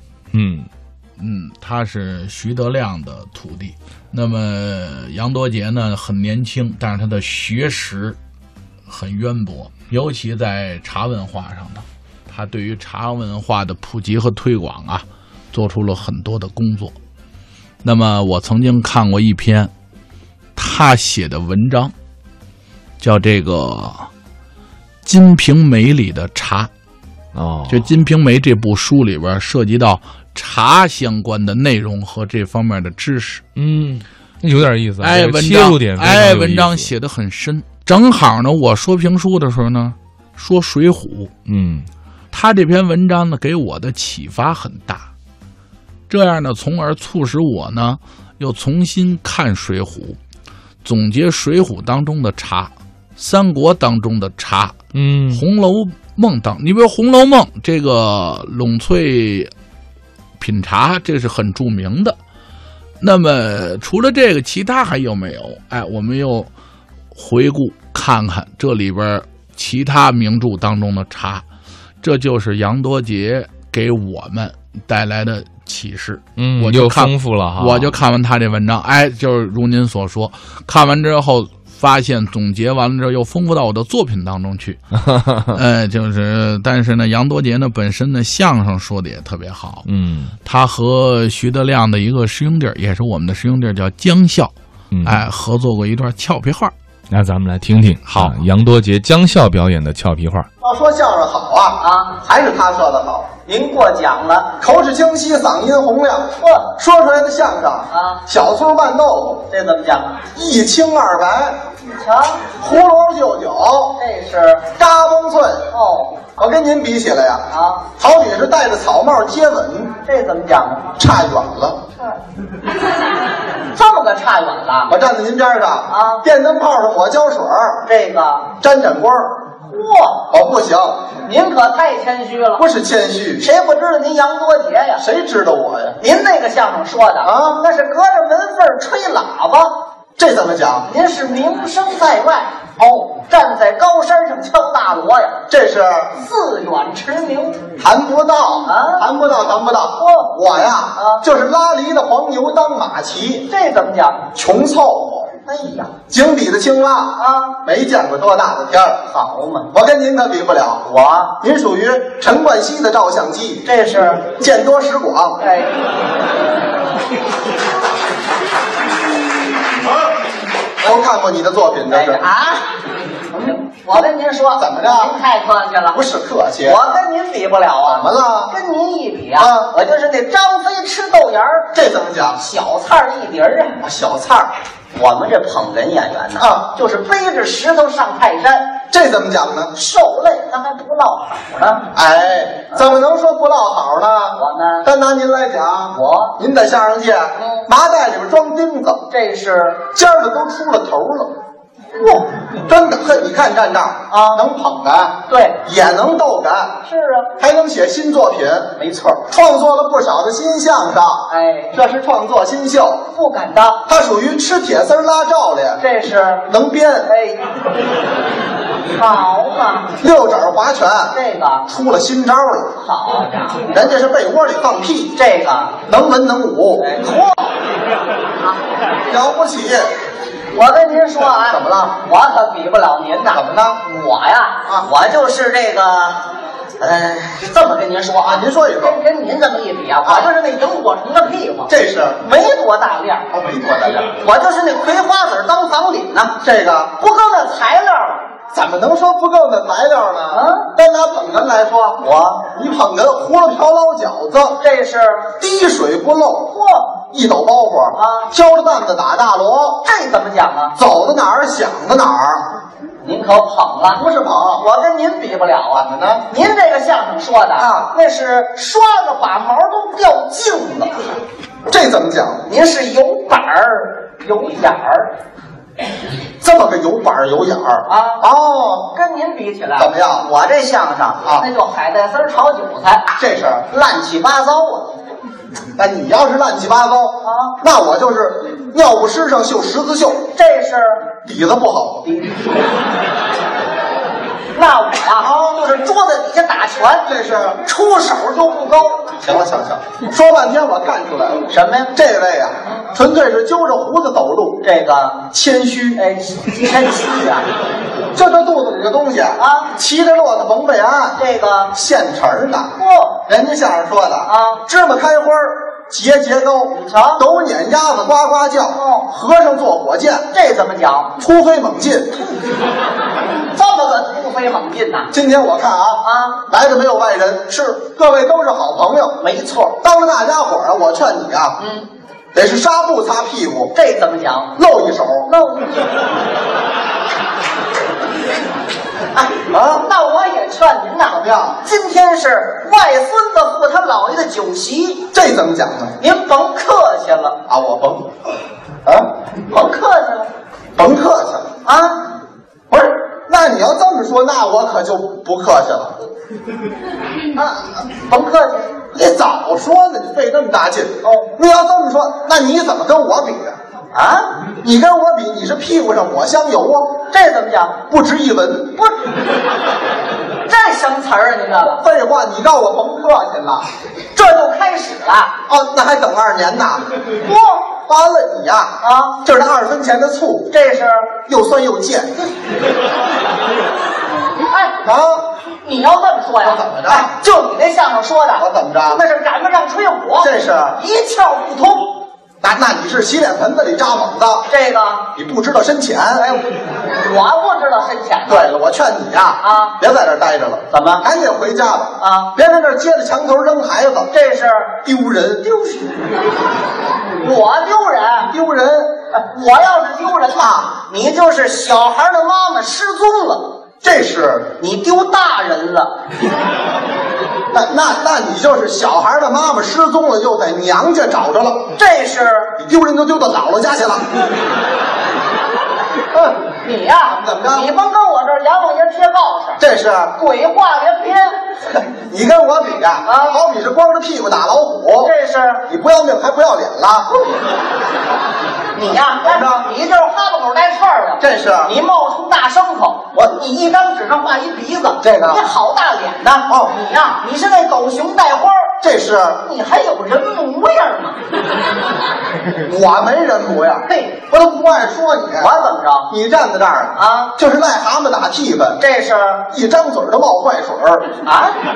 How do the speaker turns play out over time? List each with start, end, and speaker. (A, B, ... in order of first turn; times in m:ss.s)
0:00.3-0:00.7 A
0:01.2-0:08.2 B
0:08.9-0:17.0 B
0:17.8-0:19.7 B
0:20.6-0:21.9 B
0:23.0-0:24.1 B
0:25.0-0:26.7 B
0:27.3-0:27.9 A
0:27.7-0:33.4 B
0:33.6-0:36.9 A
0:35.0-0:41.3 B
0:41.5-0:41.9 A
0:42.3-0:45.1 B
0:46.1-0:50.2 B
0:50.8-0:54.8 B
0:54.9-0:55.4 A
0:55.3-0:59.5 B
1:00.4-1:02.2 B
1:03.0-1:06.5 B
1:07.1-1:11.4 B
1:12.0-1:24.8 B
1:16.4-1:18.0 A
1:25.1-1:25.4 A
1:25.5-1:29.9 B
1:29.9-1:30.4 A
1:30.4-1:34.5 B
1:34.9-1:35.2 A
1:35.0-1:36.7 B
1:37.1-1:40.5 A
1:38.1-1:38.4 B
1:40.6-1:43.3 C
1:41.8-1:42.2 D
1:43.5-1:44.5 D
1:44.6-1:49.5 C
1:46.4-1:46.7 D
1:47.9-1:48.2 D
1:49.5-1:50.2 D
1:50.4-1:51.6 C
1:51.8-1:52.5 D
1:52.6-1:53.9 C
1:54.0-1:54.7 D
1:54.8-1:55.7 C
1:55.7-1:56.3 D
1:56.4-1:57.4 C
1:57.5-1:57.9 D
1:58.0-1:59.9 C
2:00.0-2:00.9 D
2:01.0-2:01.8 C
2:03.7-2:05.0 D
2:04.9-2:07.8 C
2:05.9-2:06.2 D
2:07.8-2:08.5 D
2:08.6-2:09.4 C
2:09.7-2:10.3 D
2:10.3-2:11.0 C
2:11.2-2:12.6 D
2:12.6-2:13.4 C
2:13.4-2:15.0 D
2:15.0-2:16.0 C
2:16.0-2:19.8 D
2:17.2-2:17.6 C
2:20.2-2:20.8 C
2:20.8-2:22.5 D
2:22.8-2:23.1 C
2:23.1-2:25.4 D
2:25.5-2:26.1 C
2:26.2-2:27.7 D
2:27.8-2:33.5 C
2:28.6-2:29.1 D
2:30.0-2:31.2 D
2:33.5-2:34.3 D
2:34.4-2:35.3 C
2:35.4-2:36.0 D
2:36.1-2:39.0 C
2:37.2-2:37.6 D
2:39.1-2:39.7 D
2:39.7-2:40.8 C
2:40.8-2:41.4 D
2:41.4-2:43.6 C
2:43.6-2:44.3 D
2:44.4-2:45.4 C
2:45.4-2:45.7 D
2:50.8-2:52.2 C
2:51.9-2:52.7 D
2:53.3-2:56.0 D
2:54.6-2:55.1 C
2:55.9-2:56.8 C
2:56.6-3:01.7 D
2:57.9-2:58.5 C
2:59.4-2:59.7 C
3:01.7-3:02.4 C
3:02.4-3:03.8 D
3:03.8-3:04.5 C
3:04.9-3:08.8 D
3:06.4-3:06.6 C
3:08.9-3:09.7 C
3:09.7-3:11.9 D
3:11.9-3:19.0 C
3:14.4-3:14.9 D
3:15.9-3:16.4 D
3:17.4-3:17.7 D
3:19.1-3:19.8 D
3:19.9-3:21.3 C
3:22.0-3:22.3 D
3:22.7-3:26.7 C
3:24.1-3:24.4 D
3:25.3-3:25.6 D
3:26.8-3:27.3 D
3:27.4-3:28.7 C
3:28.8-3:29.2 D
3:29.3-3:31.2 C
3:31.3-3:31.8 D
3:31.7-3:33.0 C
3:33.1-3:33.8 D
3:33.9-3:35.8 C
3:35.8-3:36.5 D
3:36.5-3:37.1 C
3:37.1-3:37.4 D
3:39.0-3:39.9 D
3:40.0-3:41.1 C
3:41.1-3:41.7 D
3:41.7-3:42.7 C
3:42.8-3:43.8 D
3:43.7-3:45.1 C
3:45.1-3:45.8 D
3:45.9-3:46.8 C
3:46.8-3:47.6 D
3:49.1-3:49.9 C
3:50.5-3:56.3 D
3:51.5-3:51.9 C
3:53.3-3:53.8 C
3:56.8-4:03.3 D
3:58.2-3:59.0 C
4:01.7-4:02.2 C
4:03.3-4:04.0 C
4:04.0-4:06.4 D
4:06.4-4:06.9 C
4:07.0-4:08.3 D
4:08.5-4:12.0 C
4:10.3-4:10.7 D
4:12.0-4:12.4 D
4:12.5-4:14.6 C
4:14.6-4:15.3 D
4:15.4-4:16.5 C
4:16.5-4:17.0 D
4:17.1-4:19.8 C
4:17.9-4:18.3 D
4:19.8-4:20.8 D
4:20.8-4:22.5 C
4:23.0-4:24.1 D
4:24.0-4:24.6 C
4:24.6-4:31.1 D
4:25.7-4:26.2 C
4:27.6-4:27.9 C
4:31.7-4:32.4 C
4:32.5-4:35.1 D
4:36.4-4:38.9 C
4:37.9-4:38.2 D
4:38.9-4:43.1 D
4:39.8-4:40.3 C
4:43.2-4:43.6 C
4:43.7-4:45.0 D
4:45.8-4:50.2 C
4:47.2-4:47.6 D
4:50.3-4:51.1 D
4:51.2-4:52.0 C
4:52.1-4:52.3 D
4:54.5-4:57.1 D
4:55.2-4:55.6 C
4:57.1-4:57.6 C
4:57.6-4:59.2 D
4:59.2-5:04.6 C
5:01.5-5:01.9 D
5:04.6-5:05.3 D
5:05.3-5:06.0 C
5:06.0-5:07.5 D
5:08.2-5:11.2 C
5:09.4-5:09.7 D
5:11.2-5:11.7 D
5:11.8-5:12.7 C
5:12.8-5:13.2 D
5:13.3-5:20.2 C
5:14.2-5:14.6 D
5:16.8-5:17.2 D
5:18.7-5:19.1 D
5:20.3-5:21.1 D
5:21.2-5:22.2 C
5:23.5-5:25.1 D
5:25.1-5:29.1 C
5:26.0-5:26.4 D
5:29.2-5:29.8 D
5:29.8-5:31.6 C
5:31.6-5:31.9 D
5:32.4-5:33.7 C
5:33.7-5:34.5 D
5:34.6-5:35.3 C
5:35.3-5:35.9 D
5:39.1-5:45.1 D
5:39.5-5:39.8 C
5:41.1-5:41.6 C
5:45.1-5:45.9 C
5:46.0-5:47.4 D
5:47.5-5:48.0 C
5:49.5-5:50.3 D
5:50.8-5:51.4 C
5:51.6-5:52.0 D
5:52.7-5:56.0 C
5:57.3-5:58.8 D
5:58.9-6:03.6 C
6:01.0-6:01.3 D
6:03.9-6:04.3 D
6:04.6-6:06.9 C
6:07.1-6:07.8 D
6:07.9-6:08.8 C
6:10.5-6:11.8 D
6:11.8-6:13.7 C
6:14.1-6:15.3 D
6:15.5-6:16.8 C
6:17.2-6:17.7 D
6:17.9-6:18.7 C
6:18.8-6:19.2 D
6:19.2-6:20.5 C
6:20.5-6:21.1 D
6:21.3-6:22.3 C
6:24.5-6:24.8 D
6:24.8-6:25.2 C
6:25.6-6:31.9 D
6:26.4-6:27.1 C
6:28.4-6:29.0 C
6:30.2-6:30.8 C
6:32.4-6:34.4 C
6:34.5-6:35.1 D
6:35.2-6:36.2 C
6:36.2-6:38.5 D
6:38.3-6:44.1 C
6:39.4-6:39.8 D
6:40.7-6:41.1 D
6:42.0-6:42.3 D
6:44.1-6:44.8 D
6:44.8-6:45.5 C
6:47.2-6:48.3 D
6:48.3-6:48.9 C
6:49.1-6:53.5 D
6:53.8-6:54.5 C
6:54.6-6:55.9 D
6:57.5-7:01.6 C
7:01.8-7:02.5 D
7:02.6-7:04.0 C
7:06.6-7:09.6 D
7:07.2-7:07.7 C
7:09.6-7:10.1 C
7:10.2-7:11.4 D
7:11.9-7:15.1 C
7:13.1-7:13.4 D
7:15.0-7:15.6 D
7:15.7-7:17.1 C
7:18.7-7:28.8 D
7:19.3-7:19.6 C
7:21.2-7:21.7 C
7:25.0-7:25.4 C
7:28.8-7:29.4 C
7:29.4-7:31.2 D
7:32.6-7:35.5 C
7:33.9-7:34.2 D
7:35.4-7:36.1 D
7:36.1-7:38.8 C
7:37.0-7:37.3 D
7:38.8-7:39.4 D
7:39.5-7:41.0 C
7:41.2-7:41.6 D